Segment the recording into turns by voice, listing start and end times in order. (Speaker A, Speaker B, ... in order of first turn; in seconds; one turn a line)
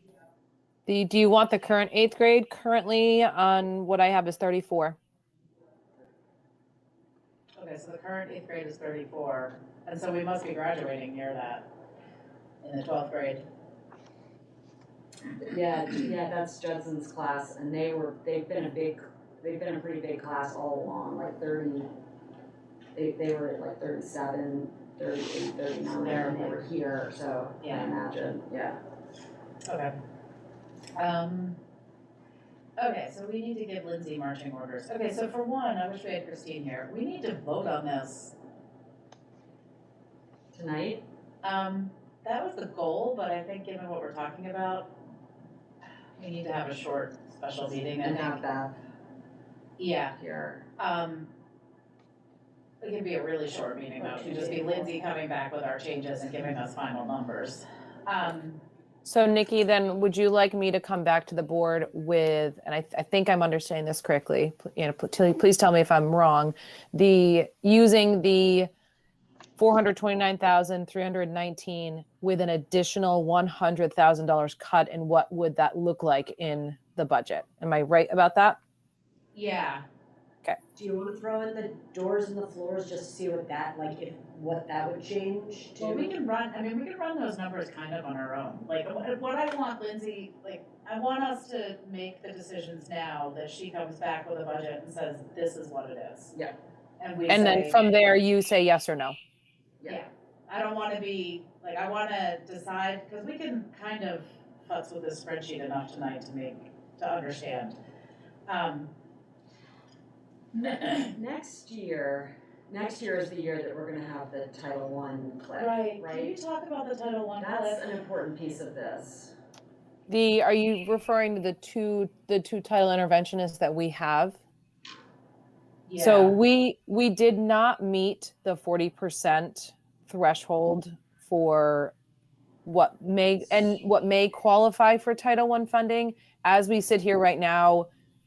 Speaker A: 0.9-5.0
Speaker B: 7.6-11.7
Speaker B: 12.6-13.4
Speaker C: 15.5-21.9
Speaker C: 22.9-28.8
Speaker B: 26.0-26.6
Speaker B: 27.6-27.9
Speaker B: 29.7-29.9
Speaker B: 31.0-31.6
Speaker B: 32.8-38.4
Speaker C: 40.5-41.0
Speaker B: 41.4-44.9
Speaker B: 46.2-48.4
Speaker C: 48.0-48.7
Speaker B: 49.8-50.1
Speaker C: 50.2-50.6
Speaker B: 50.8-51.3
Speaker B: 52.8-58.6
Speaker D: 54.0-54.8
Speaker A: 59.0-68.7
Speaker A: 69.6-78.6
Speaker B: 79.3-79.8
Speaker D: 80.8-86.1
Speaker B: 85.8-96.3
Speaker B: 97.0-97.8
Speaker A: 97.3-99.2
Speaker B: 99.9-107.8
Speaker B: 108.5-108.9
Speaker B: 110.6-111.1
Speaker C: 110.6-116.3
Speaker B: 115.6-117.8
Speaker C: 117.4-119.3
Speaker A: 120.1-124.4
Speaker B: 125.9-126.4
Speaker A: 126.0-131.9
Speaker A: 132.7-137.9